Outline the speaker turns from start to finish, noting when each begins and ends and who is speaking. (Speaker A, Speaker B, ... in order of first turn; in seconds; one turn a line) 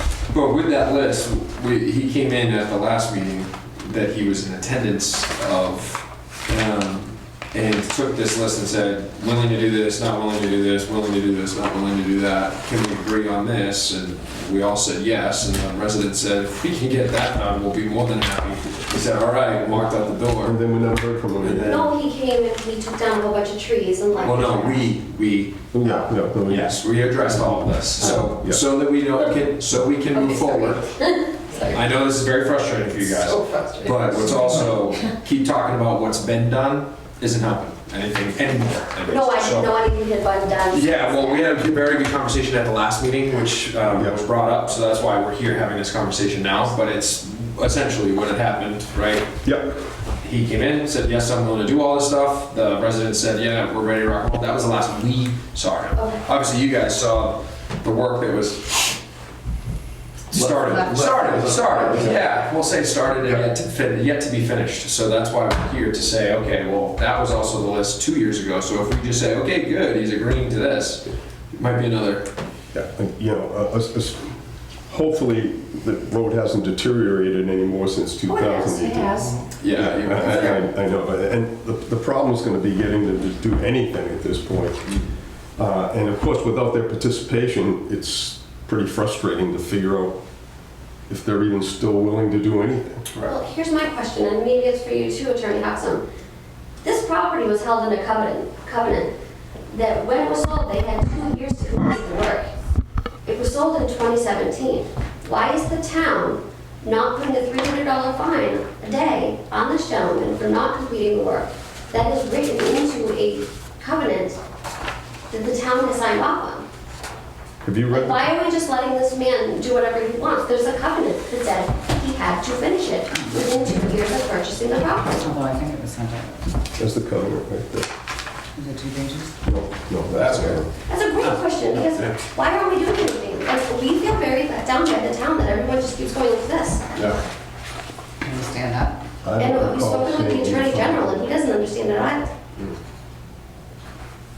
Speaker A: 0.3-20.6
Speaker B: 20.4-21.9
Speaker A: 21.4-21.9
Speaker C: 21.5-24.9
Speaker A: 24.2-25.6
Speaker B: 25.7-26.7
Speaker C: 25.8-26.1
Speaker A: 26.4-30.8
Speaker B: 28.2-28.6
Speaker C: 30.1-31.8
Speaker A: 31.7-39.8
Speaker C: 33.0-35.1
Speaker C: 39.0-41.5
Speaker A: 40.7-49.3
Speaker B: 43.9-44.2
Speaker B: 49.4-49.8
Speaker A: 50.2-58.9
Speaker C: 56.0-56.2
Speaker A: 60.3-72.3
Speaker B: 60.4-62.2
Speaker C: 61.7-62.1
Speaker B: 72.7-74.3
Speaker B: 74.9-84.9
Speaker A: 79.6-80.7
Speaker B: 85.6-90.2
Speaker B: 91.1-93.0
Speaker C: 93.2-96.0
Speaker C: 96.8-99.1
Speaker C: 99.7-102.5
Speaker C: 103.2-114.4
Speaker C: 115.3-116.7
Speaker B: 117.6-118.3
Speaker C: 117.9-125.3
Speaker D: 123.1-123.5
Speaker D: 125.1-126.5
Speaker B: 126.8-127.9
Speaker D: 128.6-129.3
Speaker B: 129.4-130.7
Speaker A: 130.1-130.6
Speaker C: 130.9-136.9
Speaker A: 131.3-132.1
Speaker D: 138.2-139.0
Speaker B: 139.2-141.1
Speaker C: 139.4-142.3